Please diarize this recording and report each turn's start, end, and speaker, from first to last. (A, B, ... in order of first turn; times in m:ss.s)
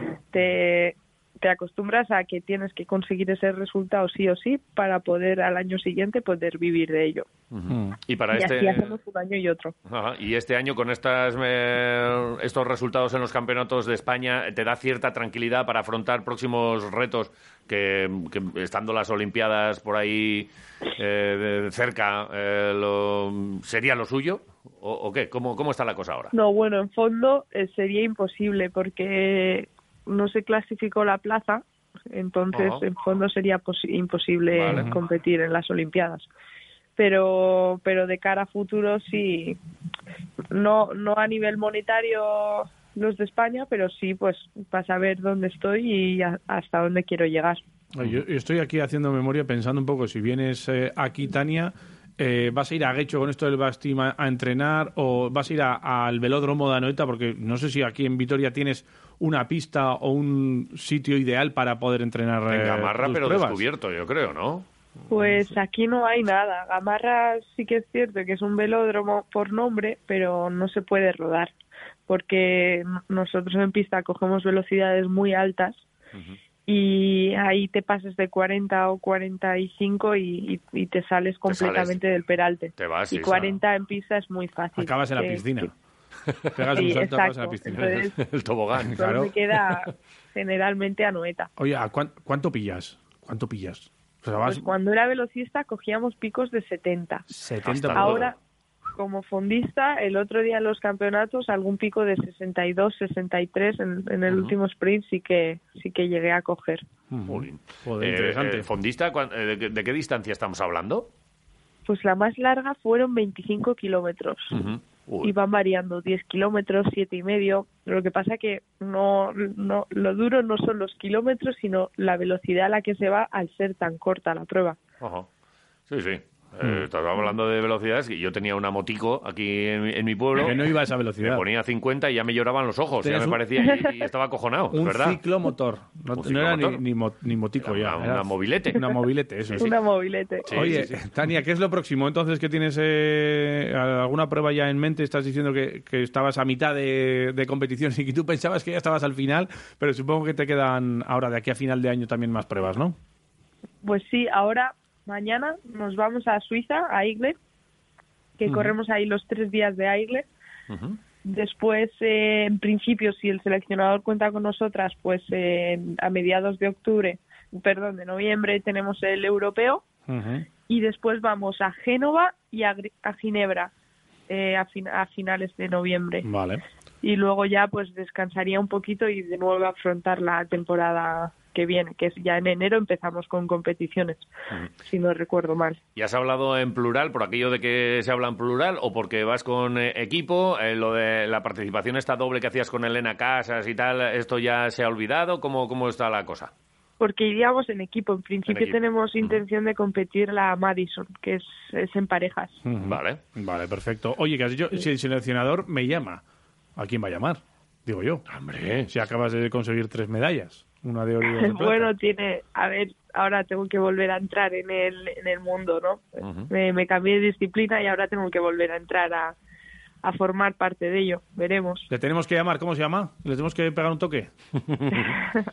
0:00.3-0:07.2 A
0:07.5-0:08.9 B
0:07.7-0:08.0 C
0:08.3-0:09.7 A
0:09.9-0:26.3 B
0:26.3-0:36.3 A
0:32.5-0:32.9 B
0:34.5-0:34.9 B
0:34.7-0:35.0 C
0:37.0-0:39.6 A
0:40.5-0:47.6 A
0:47.9-1:03.6 C
1:02.5-1:04.6 B
1:05.1-1:11.5 A
1:12.1-1:15.8 A
1:16.1-1:16.4 B
1:16.7-1:25.7 A
1:21.5-1:22.0 B
1:22.8-1:23.5 B
1:24.8-1:25.7 C
1:26.3-1:26.9 B
1:26.5-1:27.8 C
1:26.7-1:28.1 A
1:27.7-1:29.0 B
1:28.7-1:29.3 C
1:28.9-1:31.5 A
1:29.6-1:29.8 B
1:31.6-1:34.7 C
1:34.4-1:37.2 A
1:37.3-1:38.3 C
1:37.6-1:38.3 B
1:37.9-1:38.4 A
1:38.9-1:46.8 A
1:44.3-1:44.5 B
1:47.1-1:48.7 C
1:47.3-1:51.1 B
1:51.8-1:54.6 A
1:54.5-1:55.3 B
1:55.2-2:04.8 A
2:05.0-2:05.3 B
2:05.9-2:15.2 B
2:10.3-2:11.4 C
2:13.0-2:13.4 C
2:14.7-2:19.7 C
2:16.1-2:16.8 B
2:17.6-2:18.8 B
2:19.6-2:20.5 A
2:20.4-2:21.0 B
2:20.5-2:33.0 C
2:33.8-2:37.4 A
2:38.4-2:40.2 A
2:38.4-2:38.7 C
2:40.7-2:41.0 B
2:41.2-2:49.8 A
2:50.1-2:50.4 C
2:50.7-2:53.7 A
2:54.3-2:56.3 A
2:56.2-2:56.6 C
2:57.0-3:05.8 A
3:06.0-3:16.5 B
3:17.0-3:22.6 A
3:18.5-3:19.4 B
3:22.6-3:26.2 C
3:22.8-3:23.2 B
3:26.8-3:28.2 C
3:28.3-3:28.9 B
3:28.9-3:31.9 C
3:31.2-3:39.4 A
3:36.2-3:36.5 B
3:40.0-3:41.9 A
3:41.9-3:44.3 C
3:44.6-3:45.2 B